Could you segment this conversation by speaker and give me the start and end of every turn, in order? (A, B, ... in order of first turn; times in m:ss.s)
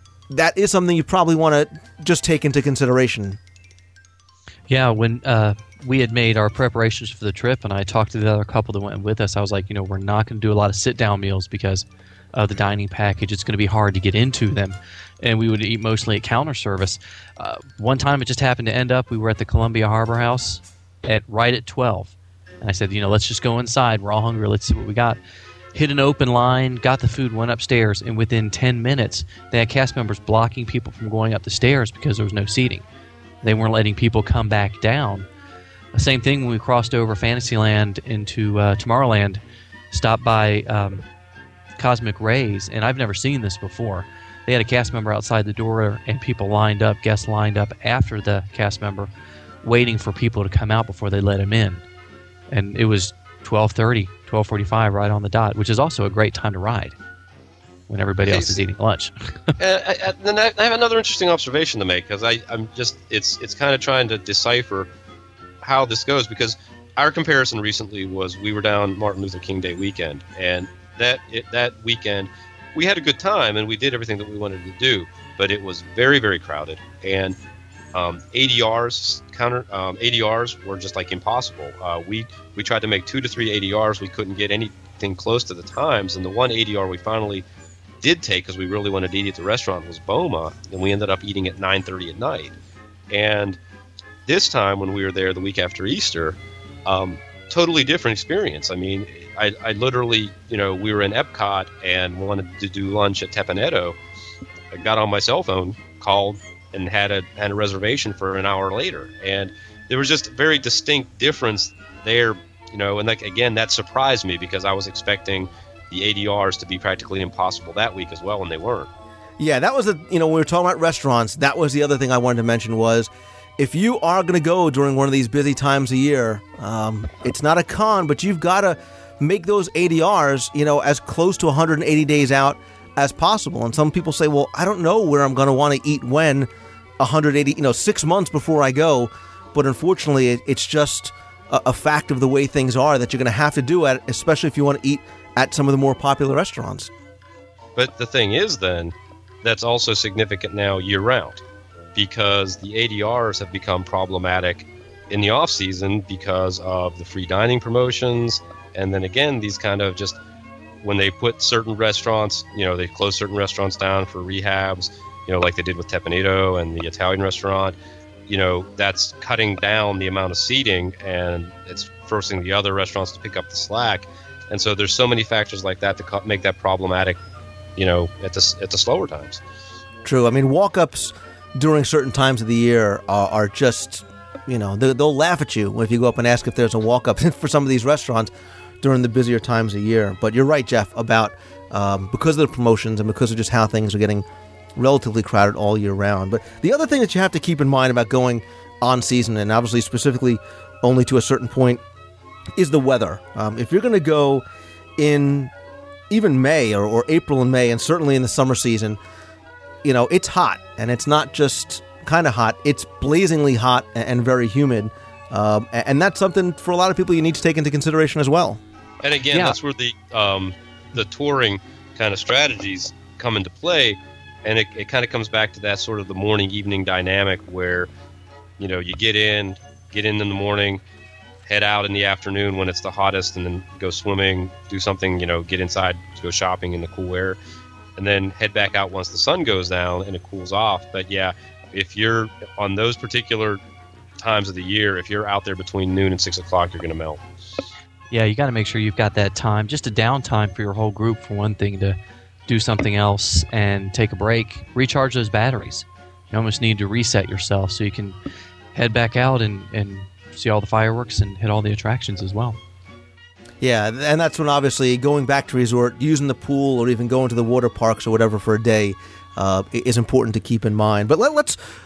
0:00.3-0:03.4 A
0:04.7-0:25.2 B
0:25.7-0:32.8 B
0:33.4-0:35.3 B
0:35.9-0:41.0 B
0:41.8-0:49.1 B
0:49.6-0:51.8 B
0:52.5-0:57.0 B
0:57.9-0:59.5 B
0:58.2-0:58.6 C
0:59.6-1:04.9 C
1:05.6-1:17.4 C
1:17.9-1:27.4 C
1:28.0-1:32.6 C
1:33.1-1:33.6 C
1:34.3-1:44.0 C
1:44.7-1:58.9 C
1:59.4-2:26.9 A
2:27.8-2:31.4 C
2:32.0-2:40.2 C
2:40.8-2:47.8 C
2:48.3-2:57.2 C
2:57.8-2:59.4 C
3:00.0-3:21.8 A
3:22.6-3:24.4 A
3:25.0-3:25.5 A
3:26.1-3:29.0 A
3:29.8-3:38.6 A
3:39.0-3:47.9 C
3:39.3-3:39.6 B
3:48.6-3:50.8 C
3:51.4-3:57.4 C
3:58.0-4:03.6 C
4:04.2-4:07.2 C
4:08.1-4:18.2 B
4:18.7-4:22.6 B
4:23.6-4:31.6 A